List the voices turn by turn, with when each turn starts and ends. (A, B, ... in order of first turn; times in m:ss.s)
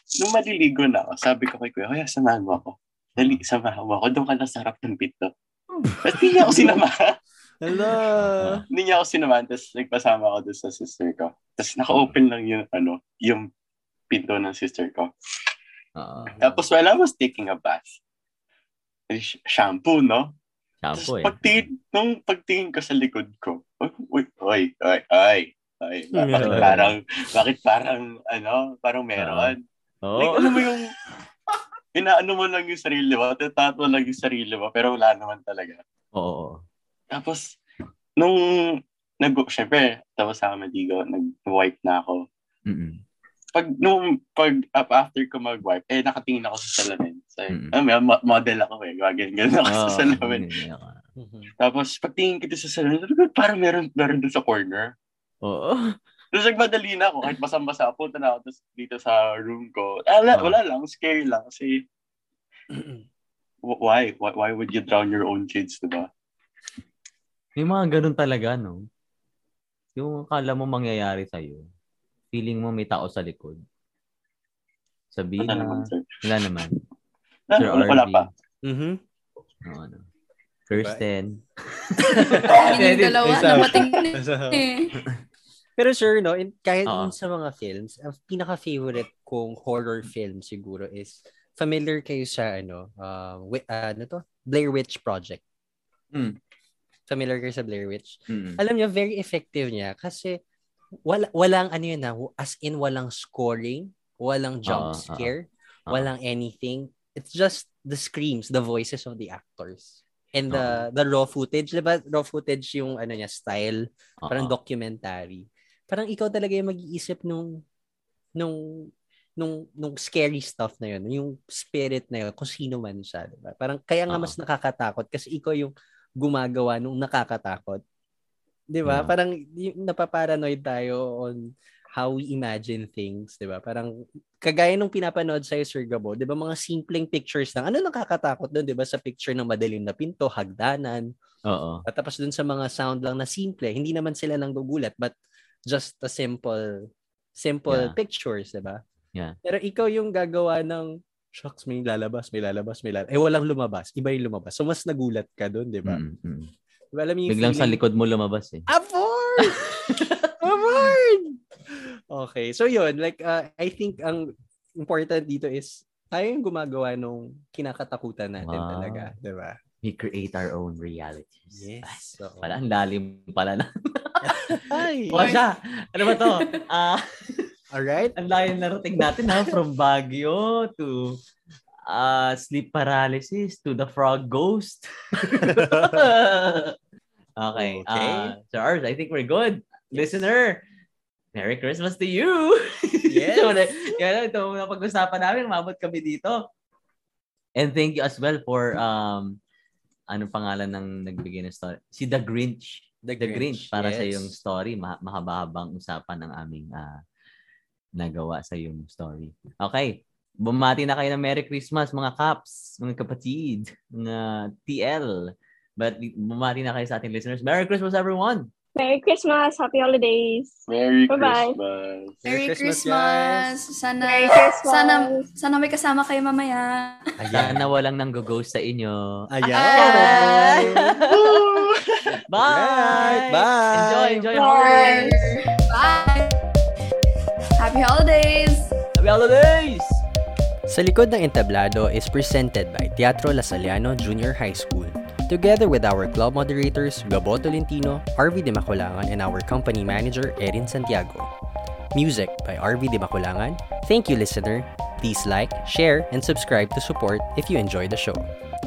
0:00.2-0:05.3 A
0:06.0-0:07.0 A
0:06.4-0:06.7 B
0:07.6-0:08.6 B
0:08.2-0:08.6 C
0:08.7-0:13.5 A
0:11.9-0:12.2 C
0:14.1-0:15.1 A
0:16.0-0:16.4 C
0:16.2-0:16.6 B
0:16.4-0:18.0 A
0:19.1-0:20.3 A
0:20.8-0:21.7 C
0:20.9-0:29.6 A
0:26.1-0:26.8 B
0:26.4-0:26.9 C
0:29.2-0:29.5 C
0:30.0-0:30.7 C
0:30.2-0:30.9 A
0:31.9-0:35.8 A
0:36.1-0:36.6 C
0:37.1-0:37.6 A
0:38.2-0:42.2 A
0:42.7-0:43.0 C
0:43.5-0:50.5 A
0:47.5-0:47.7 C
0:49.6-0:51.0 C
0:51.2-0:51.5 B
0:51.6-0:54.9 A
0:55.4-0:55.9 C
0:56.3-1:01.8 A
1:00.3-1:00.6 C
1:02.7-1:03.0 B
1:03.6-1:06.1 A
1:07.6-1:08.8 C
1:10.0-1:11.6 C
1:12.3-1:13.6 C
1:15.1-1:16.7 C
1:15.4-1:16.8 A
1:17.5-1:18.3 A
1:17.6-1:18.3 C
1:18.6-1:19.0 B
1:19.6-1:20.0 C
1:20.7-1:23.8 C
1:20.7-1:21.0 B
1:22.2-1:24.6 B
1:22.4-1:24.9 D
1:25.8-1:35.4 B
1:26.9-1:27.1 C
1:37.1-1:40.4 B
1:38.3-1:38.6 C
1:41.0-1:57.6 B
1:44.6-1:45.3 C
1:50.5-1:50.8 C
1:54.2-1:54.5 C
1:58.4-2:07.8 B
2:04.1-2:04.4 C
2:08.7-2:11.4 B
2:08.8-2:09.1 C
2:12.0-2:13.9 B
2:14.4-2:21.1 B
2:21.5-2:21.8 C
2:21.9-2:25.1 B
2:25.7-2:26.7 B
2:27.4-2:28.8 B
2:27.7-2:28.0 C
2:29.4-2:36.0 B
2:35.8-2:36.5 C
2:36.9-2:37.8 B
2:37.3-2:38.6 C
2:38.7-2:49.6 B
2:39.4-2:40.9 C
2:48.4-2:49.1 C
2:49.8-2:57.4 C
2:51.5-2:52.5 B
2:54.3-2:55.4 B
2:56.2-2:56.4 D
2:57.7-2:58.2 B
2:58.2-3:01.2 C
3:01.9-3:06.7 C
3:05.4-3:06.0 B
3:07.4-3:10.6 C
3:07.5-3:08.3 B
3:09.9-3:10.3 B
3:11.3-3:16.4 C
3:13.1-3:14.0 B
3:17.6-3:19.4 C
3:20.1-3:27.0 C
3:23.0-3:24.4 B
3:28.0-3:35.2 C
3:35.8-3:38.5 C
3:38.8-3:41.6 E
3:40.7-3:42.2 A
3:42.2-3:43.6 B
3:42.2-3:47.2 D
3:44.0-3:45.2 E
3:47.2-3:47.6 B
3:47.3-3:49.0 C
3:49.3-3:51.0 B
3:49.4-3:50.7 D
3:49.7-3:51.7 C
3:51.1-3:52.0 A
3:52.2-3:55.0 C
3:52.4-3:54.3 B
3:54.3-3:55.3 E
3:54.4-3:56.4 D
3:57.5-3:58.7 D
3:59.0-4:00.0 C
4:00.7-4:11.3 B
4:11.9-4:18.3 B